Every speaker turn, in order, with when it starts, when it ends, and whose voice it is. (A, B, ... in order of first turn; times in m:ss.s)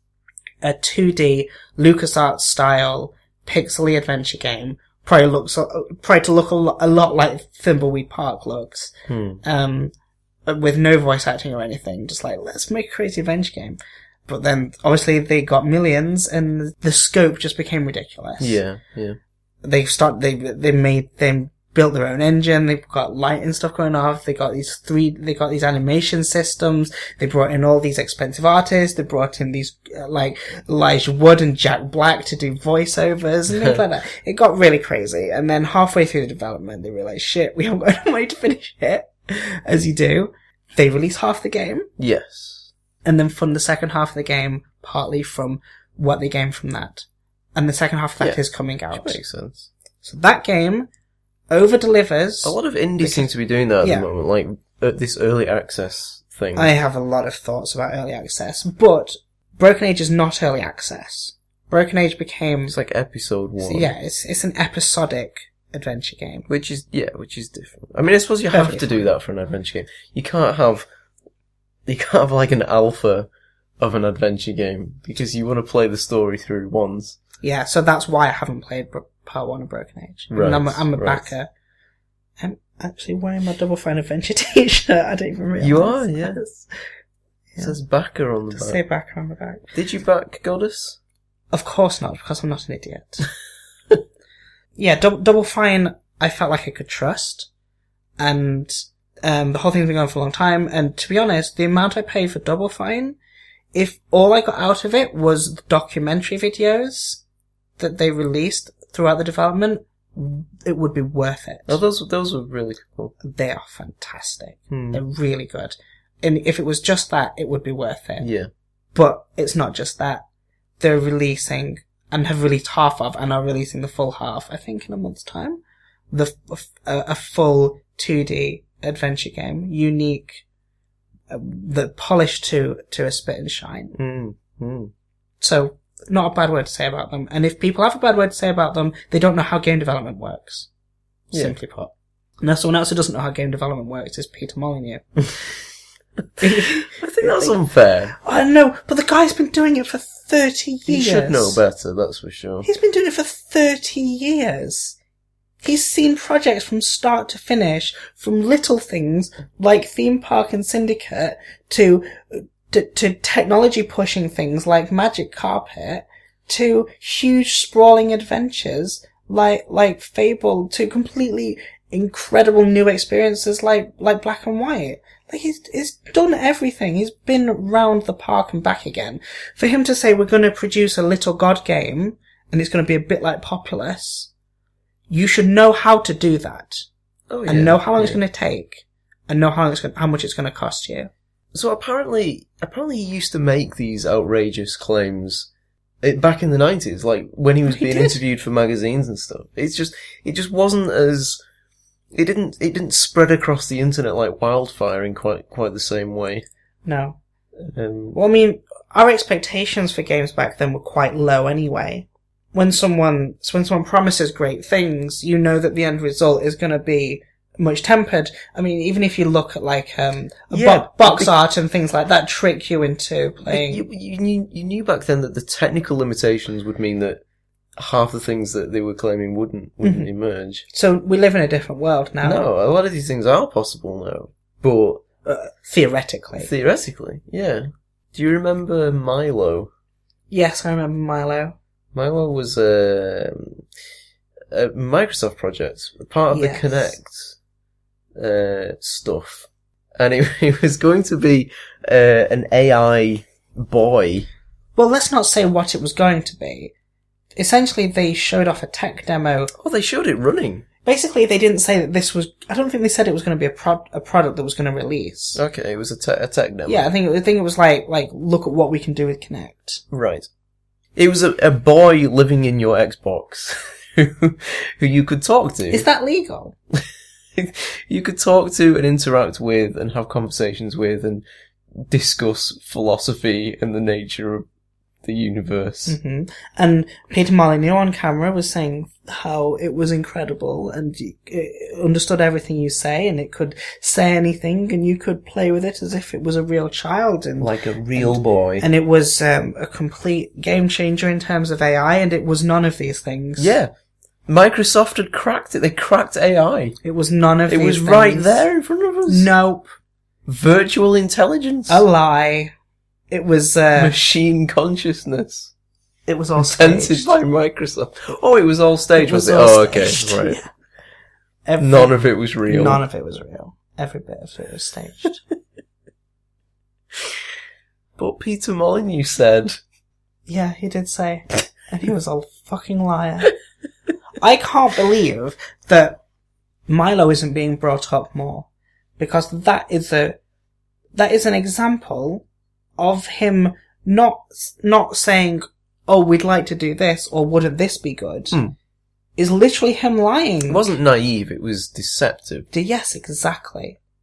0:00.6-0:09.9 A
0:09.1-0:09.4 B
0:10.5-0:18.6 A
0:18.4-0:19.2 B
0:19.6-0:41.9 A
0:42.0-0:42.7 B
0:43.0-0:49.2 A
0:48.9-0:49.7 B
0:50.0-0:50.9 A
0:51.5-0:53.3 A
0:52.4-0:56.7 B
0:53.8-0:54.1 A
0:56.6-1:02.8 A
1:02.7-1:03.9 B
1:03.6-1:06.5 A
1:06.5-1:10.9 B
1:08.5-1:09.1 A
1:11.9-1:17.2 B
1:17.4-1:21.5 A
1:20.3-1:21.3 B
1:22.4-1:26.7 A
1:25.6-1:26.4 B
1:27.6-1:28.8 B
1:28.5-1:29.7 A
1:29.7-1:31.0 B
1:31.5-1:33.3 A
1:34.8-1:37.5 A
1:38.2-1:43.2 A
1:43.7-1:47.2 A
1:47.8-1:51.8 A
1:51.7-1:53.1 B
1:53.2-1:58.3 A
1:54.7-1:55.0 B
1:58.2-1:58.5 B
1:59.0-2:00.2 A
2:00.8-2:10.4 A
2:11.3-2:13.9 A
2:13.9-2:14.9 B
2:15.4-2:20.7 A
2:21.3-2:25.4 A
2:26.4-2:27.6 A
2:26.4-2:28.2 B
2:28.1-2:31.6 A
2:30.9-2:32.7 B
2:32.6-2:35.0 A
2:35.6-3:04.3 A
3:05.1-3:06.8 A
3:07.3-3:08.2 B
3:07.5-3:11.1 A
3:11.5-3:15.5 B
3:16.0-3:21.4 B
3:17.7-3:18.2 A
3:22.1-3:26.5 B
3:26.8-3:27.2 A
3:27.7-3:28.2 B
3:28.1-3:43.8 A
3:40.5-3:41.3 B
3:43.5-3:47.2 B
3:47.8-3:50.7 B
3:49.8-3:50.1 A
3:50.7-3:52.5 A
3:52.2-3:55.0 B
3:55.2-3:56.5 A
3:56.4-3:59.7 B
4:00.3-4:01.6 A
4:01.9-4:03.6 B
4:04.5-4:07.4 B
4:06.3-4:07.0 A
4:08.2-4:09.5 B
4:10.0-4:14.3 B
4:14.8-4:16.7 A
4:17.4-4:19.5 A
4:19.6-4:20.6 B
4:20.8-4:25.4 A
4:25.4-4:26.9 B
4:26.7-4:29.8 A
4:29.9-4:30.3 B
4:31.0-4:35.9 B
4:35.7-4:36.6 A
4:37.4-4:44.5 B
4:45.0-4:46.0 B
4:45.9-5:03.6 A
4:57.4-4:58.7 B
5:03.4-5:03.7 B
5:04.3-5:06.8 B
5:06.8-5:08.4 A
5:07.5-5:09.3 B
5:09.1-5:09.7 A
5:10.3-5:11.8 B
5:11.7-5:12.5 A
5:13.1-5:14.0 A
5:13.8-5:15.5 B
5:16.1-5:17.1 A
5:16.4-5:20.4 B
5:19.0-5:20.5 A
5:21.5-5:22.0 A
5:21.6-5:22.8 B
5:22.5-5:25.2 A
5:28.0-5:29.6 B
5:30.3-5:33.3 A
5:34.2-5:36.0 A
5:36.7-5:40.2 A
5:41.0-5:42.2 A
5:42.8-5:48.4 A
5:49.2-5:50.6 A
5:50.5-5:52.5 B
5:52.5-5:53.8 A